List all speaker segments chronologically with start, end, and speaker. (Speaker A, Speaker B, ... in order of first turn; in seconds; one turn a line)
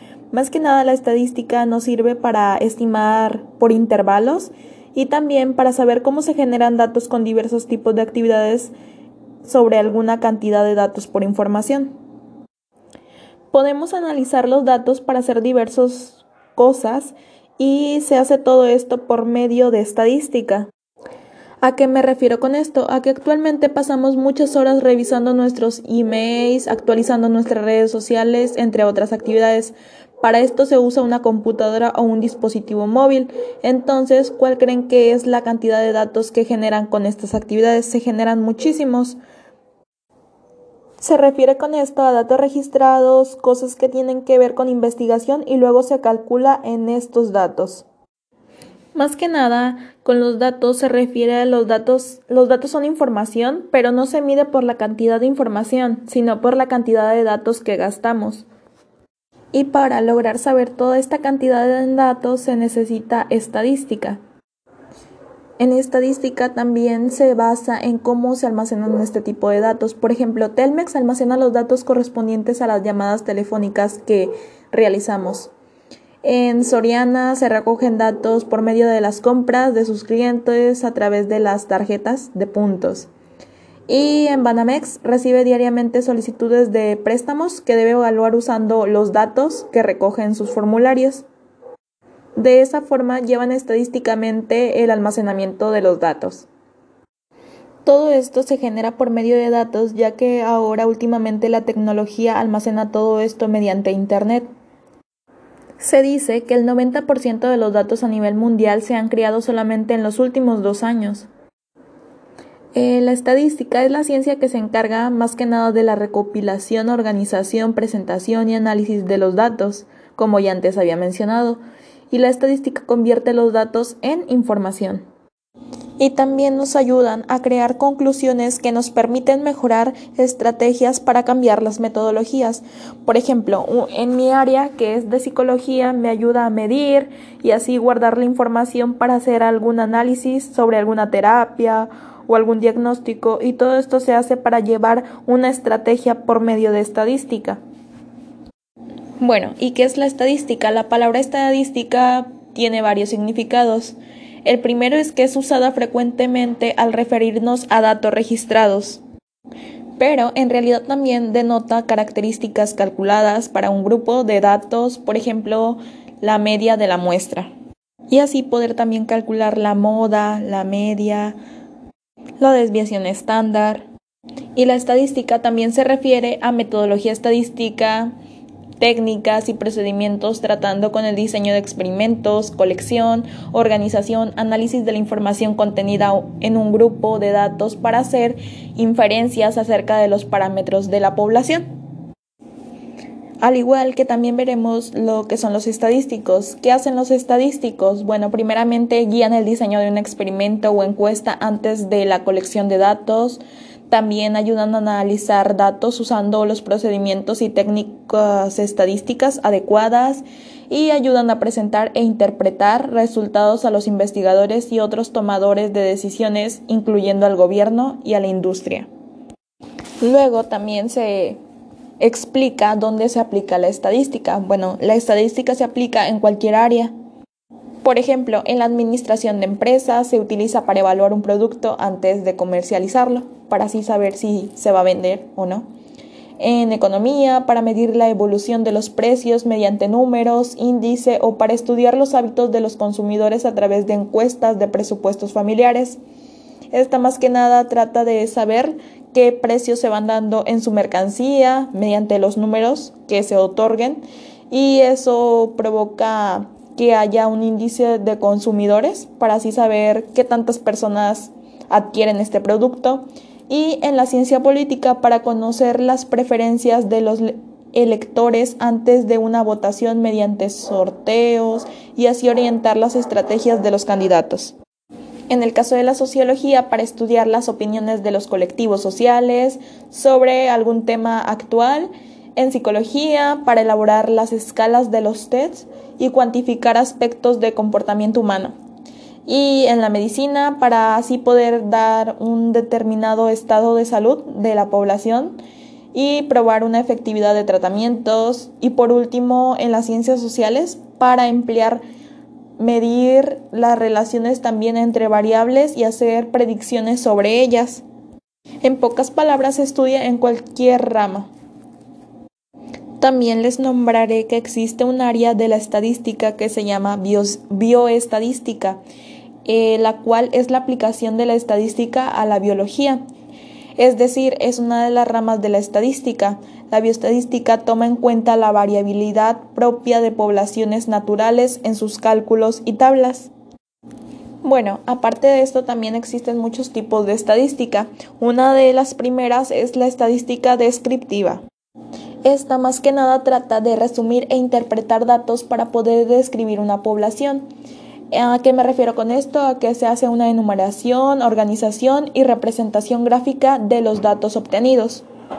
Speaker A: 0.3-8.7
Speaker A: 9.4-11.9
Speaker A: 13.5-20.7
Speaker A: 21.6-39.2
Speaker A: 41.0-47.9
Speaker A: 49.0-58.5
Speaker A: 59.5-64.2
Speaker A: 65.6-75.5
Speaker A: 76.2-83.1
Speaker A: 83.9-91.3
Speaker A: 92.4-96.5
Speaker A: 97.8-104.5
Speaker A: 105.8-111.3
Speaker A: 112.8-121.6
Speaker A: 122.1-125.0
Speaker A: 126.0-147.6
Speaker A: 149.2-159.0
Speaker A: 160.0-167.5
Speaker A: 168.1-171.4
Speaker A: 172.4-173.8
Speaker A: 174.6-178.1
Speaker A: 178.8-191.7
Speaker A: 193.4-218.9
Speaker A: 220.0-221.4
Speaker A: 222.0-226.9
Speaker A: 227.8-235.7
Speaker A: 236.4-246.0
Speaker A: 246.7-274.6
Speaker A: 275.3-288.6
Speaker A: 289.3-295.4
Speaker A: 295.9-301.8
Speaker A: 302.6-307.8
Speaker A: 308.6-311.3
Speaker A: 313.0-318.8
Speaker A: 319.5-323.0
Speaker A: 323.8-333.3
Speaker A: 334.4-341.4
Speaker A: 342.2-347.4
Speaker A: 348.1-355.1